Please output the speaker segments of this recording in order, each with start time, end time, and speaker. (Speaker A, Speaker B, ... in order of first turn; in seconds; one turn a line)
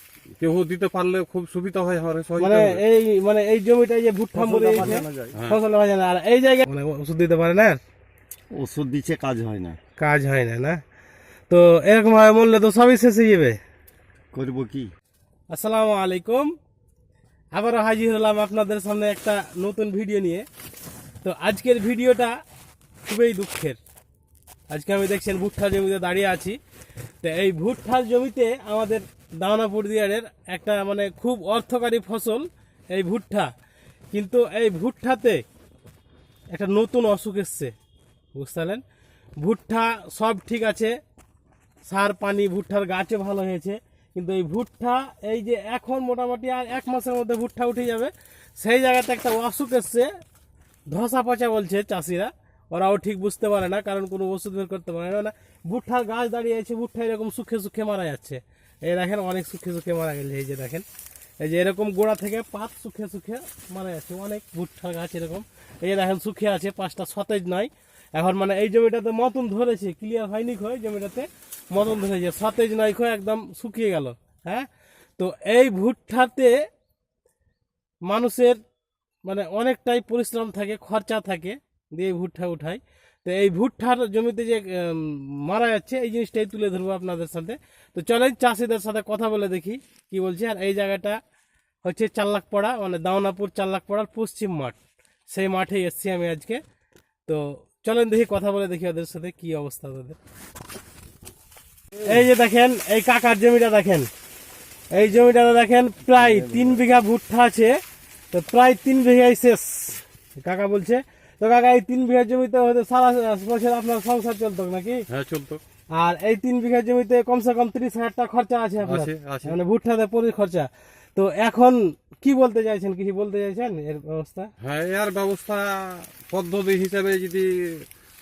Speaker A: 0.4-2.8
Speaker B: 2.4-7.8
Speaker C: 4.3-5.3
Speaker A: 5.3-5.6
Speaker C: 8.5-9.8
Speaker B: 10.0-10.8
Speaker B: 11.5-13.6
Speaker C: 14.3-14.9
Speaker B: 15.5-16.5
Speaker B: 17.5-20.5
Speaker B: 21.2-22.4
Speaker B: 23.1-23.8
Speaker B: 24.7-26.6
Speaker B: 27.2-33.5
Speaker B: 34.1-35.4
Speaker B: 36.5-37.7
Speaker B: 38.4-38.8
Speaker B: 39.4-40.9
Speaker B: 41.9-50.1
Speaker B: 50.9-60.9
Speaker B: 61.4-76.6
Speaker B: 78.1-78.6
Speaker B: 79.2-91.2
Speaker B: 91.8-94.8
Speaker B: 95.3-96.6
Speaker B: 97.3-100.2
Speaker B: 102.0-104.1
Speaker B: 104.9-107.8
Speaker C: 106.2-106.8
Speaker B: 108.3-115.0
Speaker A: 115.1-115.6
Speaker B: 115.9-124.5
Speaker A: 118.8-119.6
Speaker A: 124.6-127.9